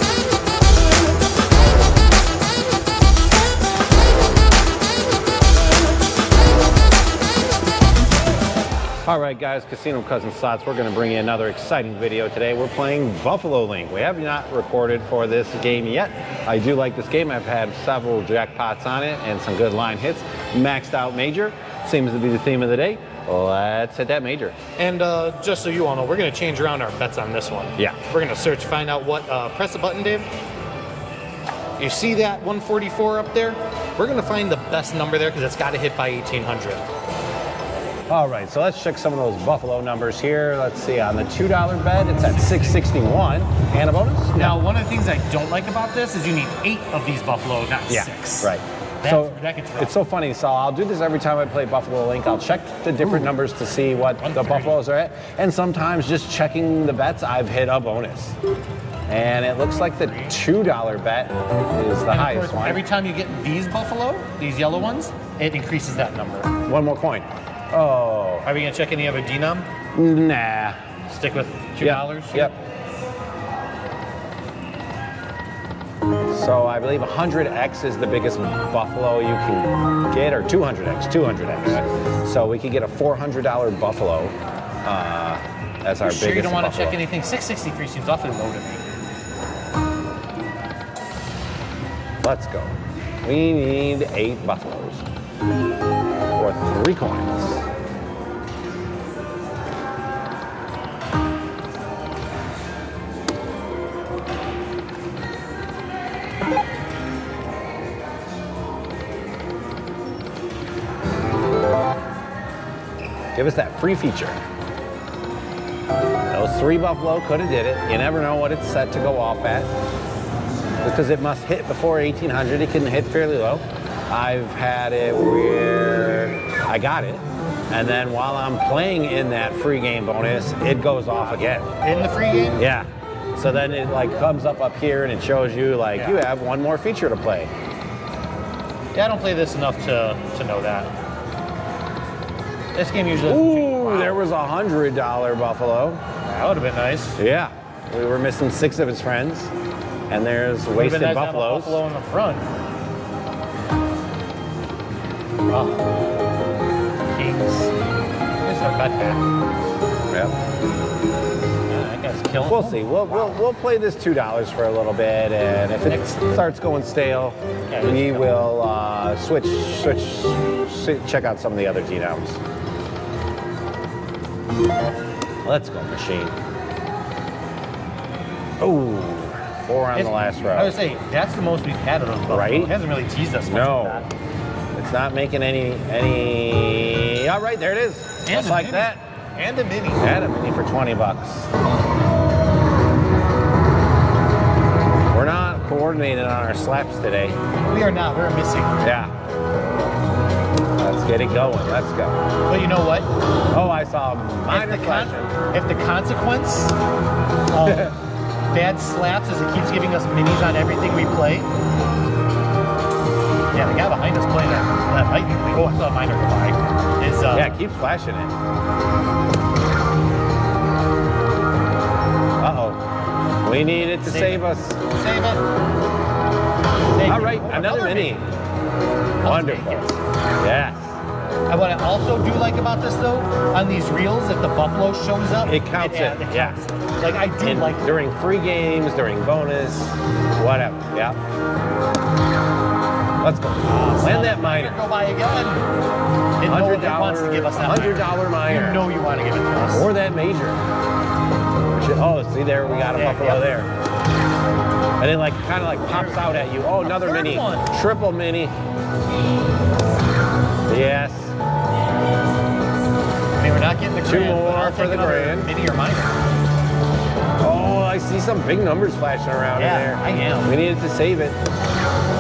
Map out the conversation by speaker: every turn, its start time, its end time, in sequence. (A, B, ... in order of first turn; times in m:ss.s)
0:09.0-0:24.5 A
0:24.8-0:30.3 B
0:31.8-0:36.8 B
0:38.1-0:44.6 A
0:42.2-0:42.9 B
0:44.4-0:50.0 B
0:47.9-0:58.4 A
0:54.2-0:54.8 B
0:59.1-1:02.8 A
0:59.7-1:00.4 B
1:02.1-1:06.5 B
1:06.6-1:08.5 A
1:08.4-1:09.7 B
1:09.9-1:10.8 A
1:11.1-1:12.5 B
1:11.8-1:12.6 A
1:16.3-1:27.0 A
1:26.0-1:28.8 B
1:32.2-1:35.0 A
1:36.3-1:37.6 A
1:53.3-1:54.4 A
1:56.3-1:59.7 A
2:00.8-2:17.5 A
2:11.3-2:12.6 B
2:15.9-2:16.2 B
2:18.9-2:20.9 B
2:22.7-2:24.2 B
2:23.2-2:26.0 A
2:26.2-2:27.2 B
2:27.2-2:29.5 A
2:30.1-2:31.8 A
2:30.7-2:32.5 B
2:35.5-2:35.8 B
2:37.0-2:37.7 B
2:38.4-2:39.2 B
2:40.1-2:40.4 A
2:41.7-2:43.4 B
2:42.4-2:52.4 A
2:45.8-2:46.2 B
2:47.7-2:48.4 B
2:55.4-2:56.3 A
2:58.6-3:00.8 A
2:59.9-3:04.1 B
3:02.3-3:02.8 A
3:03.4-3:04.1 A
3:04.7-3:09.0 A
3:08.2-3:10.0 B
3:10.0-3:11.5 A
3:15.1-3:17.4 A
3:17.6-3:18.8 B
3:18.8-3:19.1 A
3:20.8-3:22.2 A
3:22.5-3:23.1 B
3:23.5-3:25.3 A
3:24.5-3:26.7 B
3:27.5-3:27.9 B
3:27.6-3:27.9 A
3:28.5-3:31.5 B
3:33.5-3:37.6 B
3:37.3-3:38.3 A
3:42.4-3:42.8 A
3:43.4-3:44.8 A
3:44.0-3:45.4 B
3:46.9-3:48.2 B
3:47.0-3:48.3 A
3:49.2-3:50.0 B
3:49.2-3:51.0 A
3:51.5-3:57.8 B
3:55.4-3:56.6 A
3:57.4-4:01.2 A
4:03.2-4:04.8 A
4:03.6-4:05.6 B
4:06.4-4:09.9 B
4:06.4-4:08.9 A
4:09.7-4:10.6 A
4:11.7-4:13.7 A
4:12.8-4:13.6 B
4:15.0-4:18.5 A
4:15.8-4:17.7 B
4:20.7-4:21.3 A
4:23.4-4:26.3 B
4:24.0-4:25.5 A
4:27.4-4:31.4 A
4:29.6-4:30.6 B